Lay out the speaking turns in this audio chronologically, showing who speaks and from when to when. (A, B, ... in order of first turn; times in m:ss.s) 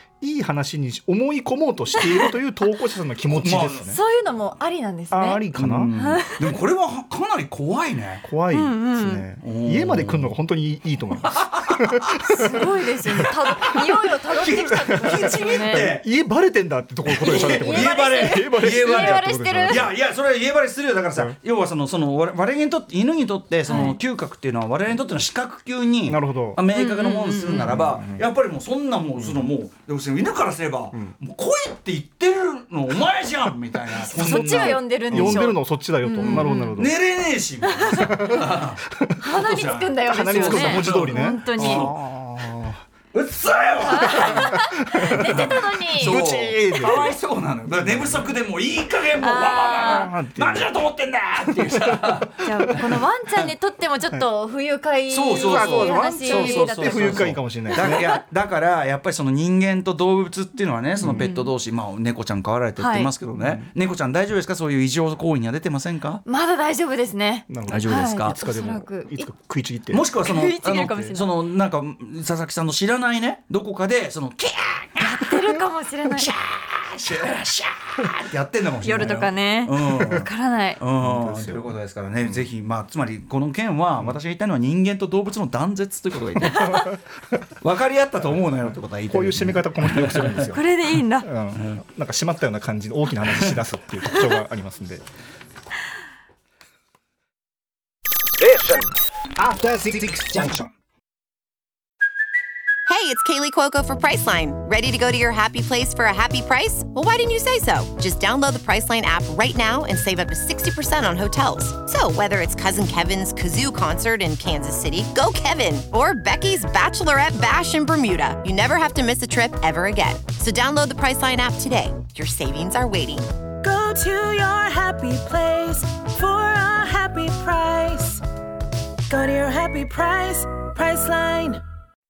0:00.2-0:04.0 A
0:03.3-0:04.0 B
0:03.9-0:05.4 C
0:05.1-0:05.9 A
0:05.6-0:08.3 B
0:06.0-0:06.5 C
0:08.2-0:12.2 A
0:08.5-0:09.2 C
0:09.4-0:10.3 B
0:11.4-0:12.6 B
0:12.3-0:15.9 C
0:14.3-0:16.0 B
0:14.7-0:19.9 A
0:17.1-0:35.5 B
0:17.2-0:19.9 C
0:23.7-0:24.0 C
0:26.1-0:26.6 A
0:26.8-0:27.8 C
0:27.5-0:28.2 A
0:34.1-0:36.8 C
0:34.1-0:37.0 A
0:36.2-0:41.9 B
0:37.8-0:38.2 C
0:38.0-0:38.4 A
0:39.2-0:41.9 C
0:40.1-0:42.8 A
0:43.1-0:53.4 B
0:43.8-0:46.2 C
0:44.4-0:47.2 A
0:47.7-0:48.3 A
0:49.2-0:50.1 C
0:49.8-0:50.7 A
0:52.4-0:58.2 C
0:55.1-1:06.2 B
0:55.4-0:58.2 A
1:01.1-1:01.5 C
1:02.8-1:03.1 C
1:03.4-1:03.7 A
1:06.3-1:09.3 C
1:07.5-1:10.0 A
1:07.7-1:08.4 B
1:09.9-1:15.6 B
1:10.3-1:11.4 C
1:15.0-1:16.3 C
1:16.2-1:20.3 B
1:18.8-1:20.8 C
1:20.8-1:27.0 B
1:21.0-1:22.4 A
1:26.5-1:26.8 C
1:27.6-1:30.6 B
1:29.1-1:30.6 A
1:30.5-1:31.3 C
1:31.2-1:35.0 A
1:33.3-1:33.6 B
1:42.9-2:03.3 D
2:03.6-2:08.2 E
2:09.1-2:11.6 E